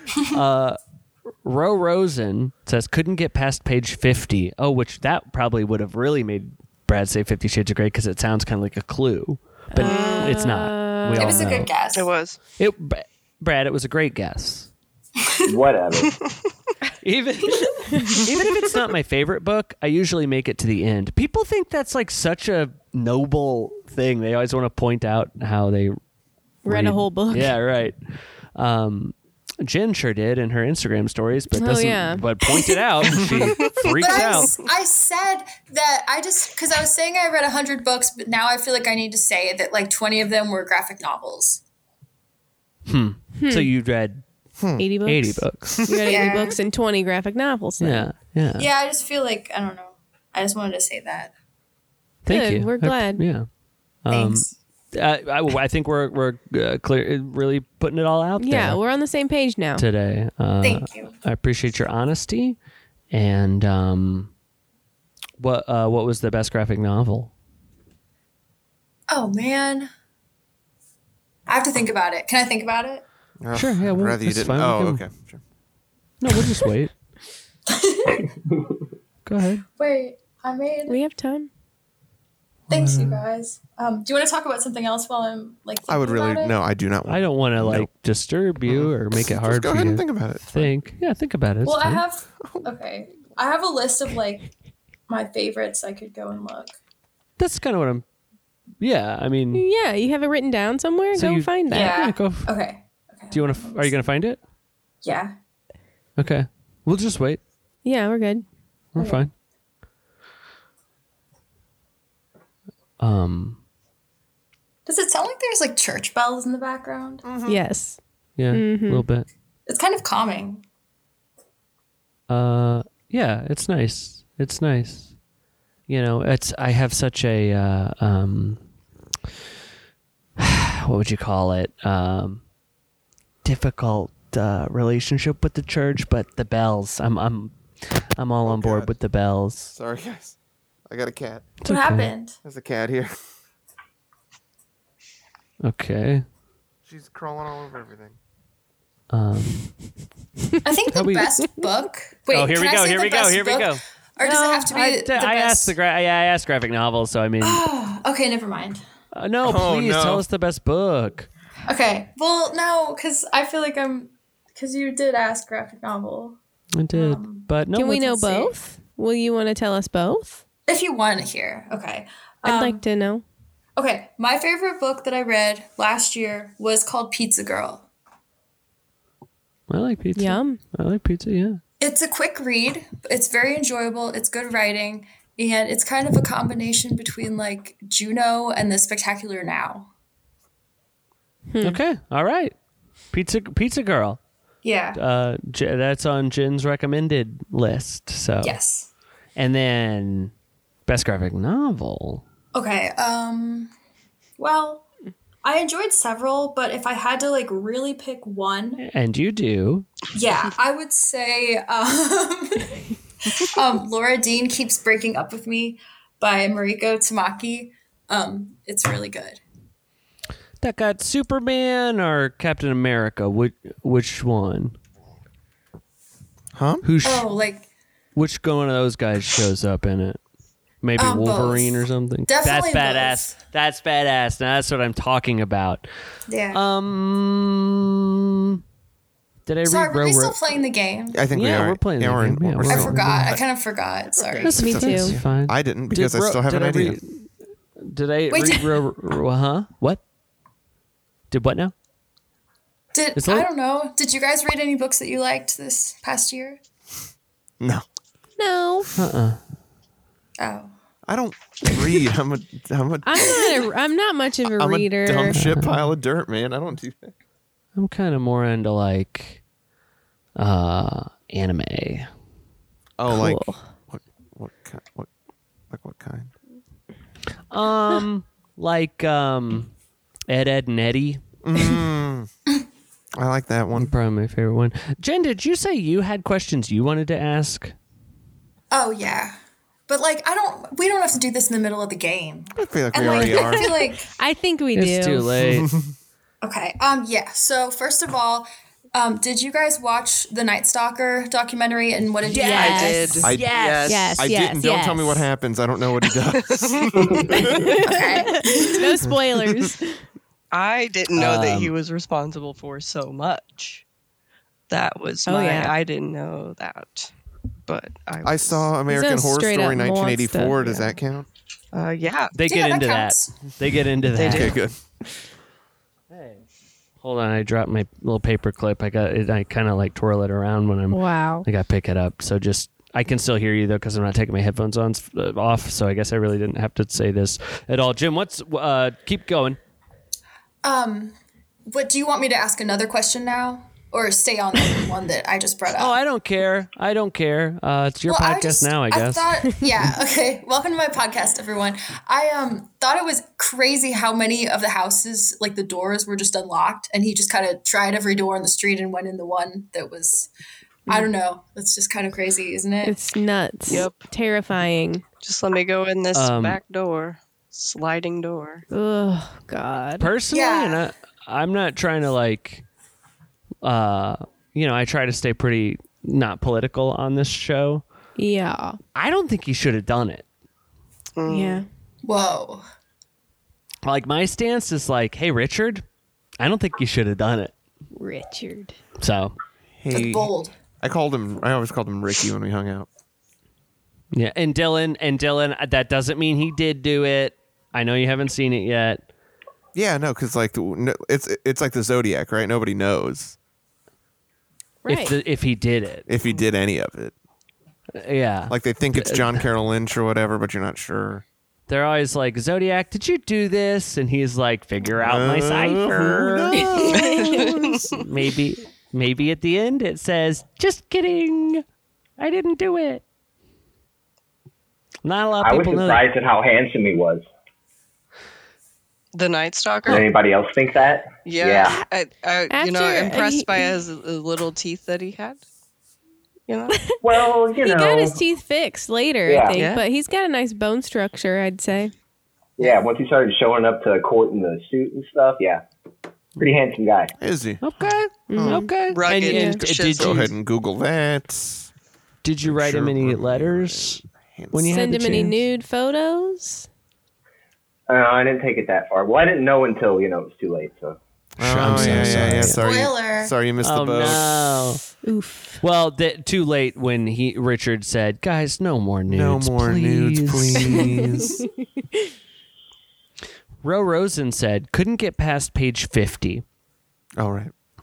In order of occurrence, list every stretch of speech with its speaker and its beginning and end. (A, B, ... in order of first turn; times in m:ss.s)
0:00.3-0:00.8 A
0:01.4-0:11.7 A
0:09.7-0:11.5 B
0:09.8-0:10.4 C
0:11.2-0:12.1 D
0:11.9-0:12.4 C
0:12.6-0:14.7 A
0:15.5-0:16.2 E
0:17.0-0:26.0 A
0:18.0-0:18.2 B
0:26.6-0:27.6 B
0:26.7-0:28.0 A
0:28.6-0:34.5 A
0:31.5-0:32.3 B
0:33.4-0:33.8 C
0:33.7-0:41.6 D
0:42.9-0:44.2 A
0:43.4-0:43.7 B
0:44.6-0:44.9 F
0:44.8-0:48.1 B
0:45.0-0:45.9 A
0:45.8-0:46.2 F
0:46.0-0:46.6 D
0:47.8-0:48.7 A
0:48.6-0:51.3 D
0:52.2-0:53.5 A
0:52.3-0:53.2 B
0:54.0-0:58.8 A
0:54.1-0:54.5 D
0:58.4-0:59.8 B
0:59.8-1:02.6 A
1:00.6-1:01.1 D
1:03.1-1:04.3 A
1:05.4-1:07.3 A
1:09.1-1:09.9 D
1:11.5-1:13.0 D
1:13.4-1:15.4 F
1:13.5-1:15.0 A
1:16.2-1:16.9 A
1:17.7-1:18.2 D
1:19.2-1:19.6 A
1:19.8-1:21.0 D
1:20.9-1:21.5 B
1:22.7-1:23.2 A
1:22.7-1:26.6 D
1:25.9-1:27.9 F
1:27.1-1:32.0 A
1:28.7-1:30.7 F
1:31.6-1:34.5 D
1:35.1-1:36.7 D
1:37.4-1:38.0 A
1:38.8-1:39.7 A
1:39.5-1:42.0 B
1:41.1-1:42.5 A
1:41.7-1:44.0 D
1:43.3-1:44.4 A
1:45.0-1:45.3 D
1:46.2-1:47.4 A
1:47.8-1:48.5 B
1:49.0-1:49.3 A
1:49.0-1:49.2 D
1:53.0-1:53.6 A
1:54.9-1:57.3 D
1:57.2-1:57.6 F
1:57.4-1:58.0 B
1:58.4-1:59.3 A
1:58.5-1:59.1 B
1:59.7-2:00.6 D
2:02.3-2:05.1 A
2:05.9-2:08.6 A
2:10.4-2:12.4 A
2:13.4-2:19.7 A
2:18.5-2:18.9 F
2:19.7-2:20.4 F
2:20.9-2:21.6 F
2:21.6-2:22.1 A
2:21.7-2:22.4 D
2:22.4-2:23.2 F
2:25.6-2:26.2 A
2:26.9-2:28.2 F
2:29.1-2:29.7 A
2:30.6-2:35.8 D
2:30.9-2:31.3 A
2:32.3-2:37.6 A
2:37.4-2:38.8 D
2:39.1-2:41.3 A
2:39.4-2:40.2 F
2:41.7-2:46.4 D
2:46.8-2:48.3 A
2:46.9-2:47.5 D
2:47.8-2:50.4 B
2:48.2-2:48.5 D
2:50.7-2:52.8 D
2:52.4-2:53.2 B
2:53.8-2:57.9 D
2:59.7-3:01.6 A
3:00.2-3:00.6 B
3:01.8-3:09.9 D
3:11.5-3:11.8 B
3:11.6-3:12.6 A
3:13.1-3:14.2 A
3:14.6-3:15.0 D
3:14.9-3:18.6 A
3:18.4-3:18.9 D
3:19.4-3:20.3 A
3:20.9-3:22.2 A
3:22.5-3:23.7 D
3:24.4-3:24.9 D
3:25.4-3:28.8 D
3:28.8-3:29.9 A
3:30.1-3:39.4 D
3:40.6-3:44.8 A
3:46.6-3:46.8 F
3:46.8-3:47.3 A
3:47.0-3:47.7 D
3:48.2-3:50.2 A
3:50.8-3:55.9 A
3:51.0-3:53.3 D
3:56.3-3:56.6 D
3:56.5-3:58.6 A
3:59.5-4:00.4 A
3:59.6-4:01.2 D
4:01.1-4:03.4 F
4:01.3-4:03.4 A
4:02.7-4:04.6 D
4:04.3-4:10.0 A
4:04.5-4:05.2 B
4:04.6-4:07.0 F
4:08.3-4:08.8 D
4:11.3-4:11.7 A
4:12.9-4:16.6 D
4:13.2-4:13.5 A
4:18.4-4:18.9 B
4:19.0-4:19.4 A
4:20.4-4:20.7 D
4:21.1-4:23.6 F
4:23.0-4:25.4 B
4:24.6-4:27.1 F
4:25.3-4:25.9 A
4:27.8-4:29.4 A
4:30.4-4:32.1 A
4:33.0-4:35.1 F
4:33.1-4:33.7 B
4:35.7-4:36.3 F
4:37.5-4:39.7 A
4:40.3-4:41.2 A
4:41.4-4:42.3 F
4:43.2-4:43.9 F
4:43.8-4:47.8 A
4:48.7-4:49.4 D
4:49.9-4:54.1 D
4:52.6-4:53.7 F
4:53.2-4:55.3 B
4:54.8-4:55.7 A
4:55.4-4:55.9 F
4:56.4-5:03.0 D
5:02.3-5:04.2 A
5:02.4-5:03.3 B
5:02.5-5:04.2 C
5:03.2-5:03.6 F
5:03.8-5:05.3 B
5:04.2-5:07.8 F
5:06.4-5:07.5 C
5:07.4-5:10.0 B
5:07.7-5:09.0 D
5:09.0-5:09.7 F
5:10.5-5:13.8 C
5:11.1-5:11.7 A
5:14.7-5:17.1 C
5:15.3-5:15.8 B
5:17.7-5:18.7 C
5:18.2-5:21.3 F
5:18.9-5:21.0 B
5:21.7-5:22.4 C
5:22.3-5:24.6 A
5:22.4-5:23.4 D
5:24.2-5:24.6 C
5:24.2-5:24.8 F
5:26.1-5:26.4 A
5:27.0-5:39.6 A
5:30.9-5:31.5 B
5:40.6-5:41.1 D
5:41.7-5:46.0 D
5:45.7-5:49.5 A
5:48.1-6:00.3 D
6:00.9-6:03.0 D
6:02.8-6:05.0 B
6:03.7-6:04.1 C
6:05.2-6:08.6 C
6:06.1-6:06.6 A
6:08.7-6:10.1 B
6:10.0-6:12.6 A
6:10.3-6:10.9 D
6:13.6-6:17.8 A
6:18.2-6:18.8 B
6:19.0-6:20.2 A
6:21.2-6:21.6 C
6:21.3-6:21.7 B
6:22.0-6:22.6 D
6:23.8-6:25.8 A
6:26.4-6:27.5 A
6:28.0-6:28.8 B
6:29.0-6:29.4 A
6:29.8-6:32.9 F
6:29.9-6:30.5 D
6:34.1-6:39.0 A
6:39.8-6:43.4 F
6:44.8-6:45.2 B
6:44.9-6:46.1 A
6:46.1-6:47.1 F
6:48.0-6:49.5 A
6:48.5-6:51.2 F
6:51.7-6:56.8 A
6:55.0-6:57.2 F
6:56.5-6:57.9 B
6:56.9-6:58.0 C
6:57.9-7:01.6 A
7:02.2-7:03.0 A
7:05.0-7:06.1 A
7:05.4-7:07.3 E
7:09.1-7:10.1 C
7:09.9-7:11.8 E
7:11.2-7:15.4 C
7:12.5-7:13.7 B
7:16.5-7:16.9 C
7:16.7-7:17.0 B
7:17.0-7:18.2 E
7:17.6-7:21.9 B
7:19.3-7:19.6 E
7:19.5-7:19.8 C
7:22.6-7:25.6 E
7:26.4-7:27.1 E
7:27.2-7:27.7 F
7:27.6-7:30.3 A
7:28.3-7:28.7 B
7:28.3-7:28.7 F
7:28.9-7:30.3 C
7:29.3-7:29.6 B
7:29.8-7:31.7 F
7:32.2-7:35.4 A
7:32.4-7:35.0 F
7:34.7-7:36.7 B
7:37.9-7:41.0 E
7:41.4-7:42.6 A
7:41.4-7:44.6 F
7:42.6-7:43.3 D
7:43.6-7:44.8 A
7:45.0-7:45.6 B
7:45.6-7:51.2 A
7:49.1-7:51.4 F
7:50.7-7:52.0 B
7:53.6-7:56.4 A
7:57.2-7:57.5 F